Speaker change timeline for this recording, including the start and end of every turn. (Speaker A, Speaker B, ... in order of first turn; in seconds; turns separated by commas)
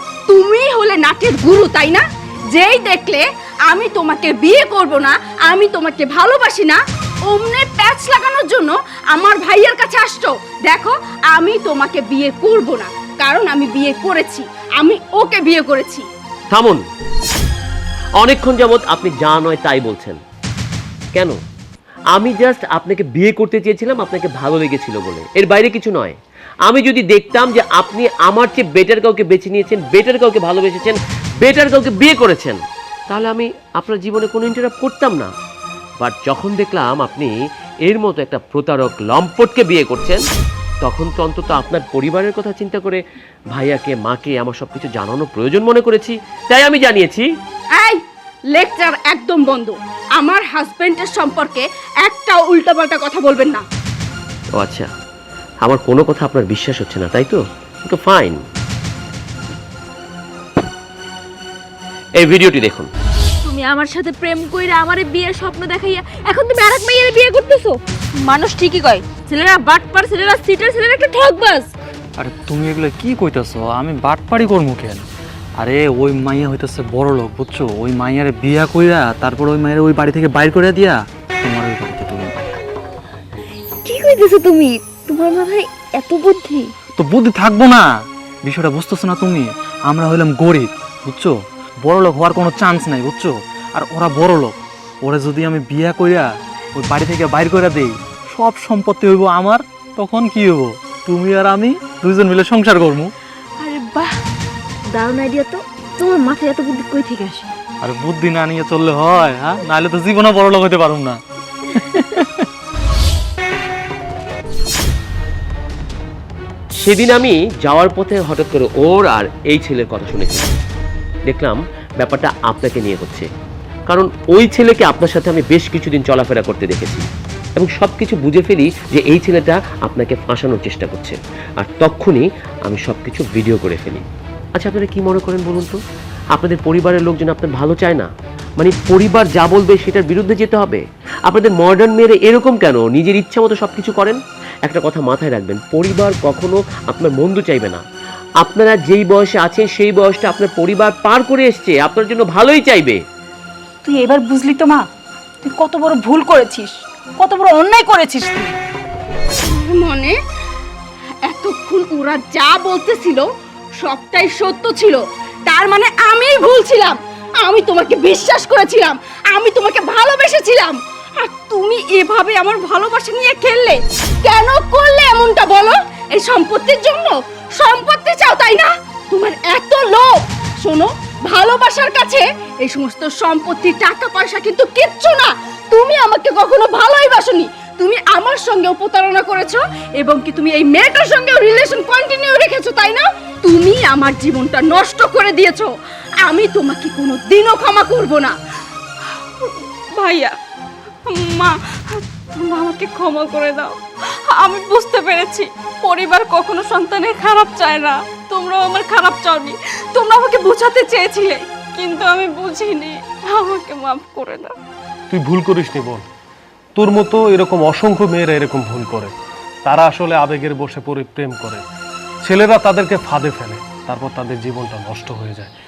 Speaker A: 0.3-16.1, Speaker B: 16.5-16.8, Speaker B: 18.2-20.2, Speaker B: 22.1-35.3, Speaker B: 36.0-37.3, Speaker B: 37.9-40.2, Speaker B: 40.8-43.0, Speaker B: 43.5-47.3, Speaker A: 48.5-53.6, Speaker B: 54.5-54.9, Speaker B: 55.6-58.4, Speaker B: 62.2-62.9, Speaker C: 63.5-67.7, Speaker A: 68.2-69.0, Speaker C: 69.1-71.7, Speaker D: 72.2-75.0, Speaker D: 75.6-82.3, Speaker C: 83.8-86.7, Speaker D: 87.0-87.9, Speaker D: 88.4-103.1, Speaker C: 103.6-104.2, Speaker C: 104.9-107.5, Speaker D: 107.8-112.5, Speaker B: 116.8-120.5, Speaker B: 121.3-123.3, Speaker B: 123.9-127.0, Speaker B: 127.6-135.8, Speaker B: 136.3-147.8, Speaker B: 148.4-153.0, Speaker E: 153.8-154.9, Speaker E: 155.4-158.5, Speaker A: 159.4-160.2, Speaker A: 161.2-163.2, Speaker A: 163.8-180.1, Speaker A: 180.6-195.7, Speaker A: 196.2-198.3, Speaker A: 199.4-200.3, Speaker A: 201.1-203.8, Speaker A: 204.3-214.5, Speaker F: 215.1-216.1, Speaker F: 216.8-219.1, Speaker F: 219.7-221.6, Speaker F: 222.2-225.5